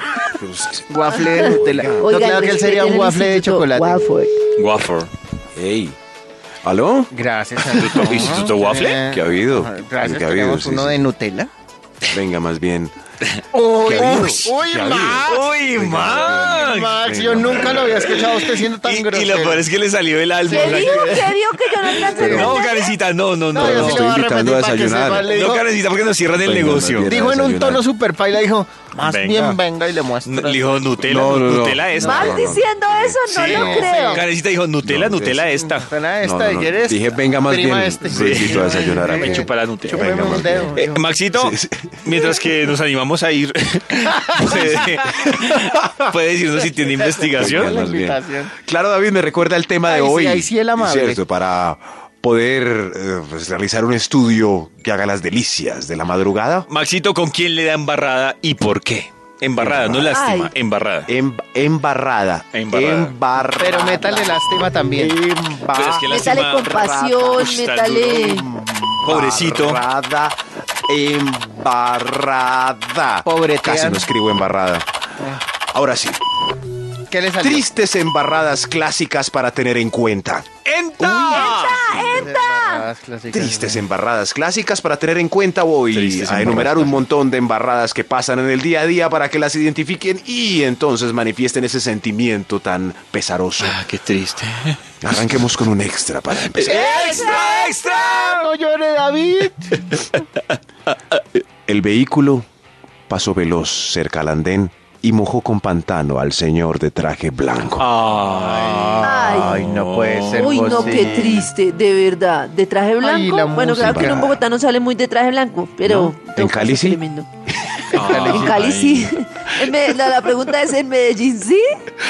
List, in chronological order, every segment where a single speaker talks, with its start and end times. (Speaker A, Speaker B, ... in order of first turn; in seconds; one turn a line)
Speaker A: 0.3-2.0
Speaker B: 0.9-4.0
Speaker C: 2.0-4.3
Speaker D: 4.6-5.1
Speaker A: 5.5-6.0
Speaker A: 6.6-7.1
Speaker B: 7.1-11.5
Speaker D: 7.6-9.0
Speaker A: 9.0-11.1
Speaker A: 12.1-12.9
Speaker D: 13.3-17.0
Speaker B: 13.5-15.5
Speaker A: 13.8-17.9
Speaker B: 16.6-19.6
Speaker D: 17.5-24.1
Speaker B: 20.4-21.4
Speaker C: 20.5-22.9
Speaker B: 22.0-22.6
Speaker A: 22.1-22.6
Speaker B: 23.5-25.7
Speaker A: 23.5-25.3
Speaker D: 24.9-27.1
Speaker A: 26.3-27.8
Speaker B: 27.1-30.6
Speaker D: 28.9-29.6
Speaker D: 30.2-32.5
Speaker A: 31.0-33.2
Speaker C: 32.0-34.2
Speaker D: 33.3-35.9
Speaker B: 33.4-34.2
Speaker A: 34.8-35.5
Speaker B: 35.8-41.0
Speaker A: 36.2-40.7
Speaker D: 38.1-47.7
Speaker A: 41.3-42.0
Speaker B: 44.4-44.8
Speaker B: 47.4-48.5
Speaker A: 47.4-56.7
Speaker B: 49.9-51.2
Speaker D: 56.7-61.1
Speaker A: 59.6-60.2
Speaker C: 60.1-60.5
Speaker A: 61.1-64.4
Speaker D: 62.5-63.1
Speaker B: 63.6-65.2
Speaker A: 64.9-67.4
Speaker D: 65.7-66.7
Speaker C: 66.1-68.5
Speaker D: 67.4-68.5
Speaker A: 68.4-74.9
Speaker D: 69.0-69.8
Speaker B: 73.2-74.0
Speaker A: 75.7-76.2
Speaker B: 77.1-77.6
Speaker A: 77.4-82.2
Speaker D: 80.6-82.1
Speaker C: 81.0-82.8
Speaker B: 82.0-83.8
Speaker A: 83.3-93.8
Speaker D: 85.9-87.0
Speaker D: 93.6-94.8
Speaker A: 95.0-97.0
Speaker D: 96.5-98.5
Speaker B: 96.6-99.9
Speaker D: 99.9-100.2
Speaker A: 101.7-102.4
Speaker A: 103.1-107.8
Speaker D: 107.8-111.1
Speaker B: 108.3-111.4
Speaker C: 109.0-109.7
Speaker C: 110.3-117.3
Speaker A: 111.0-111.5
Speaker B: 113.0-114.2
Speaker A: 113.8-114.4
Speaker A: 115.8-117.0
Speaker D: 117.7-119.1
Speaker A: 117.9-118.5
Speaker B: 117.9-118.5
Speaker C: 118.2-121.6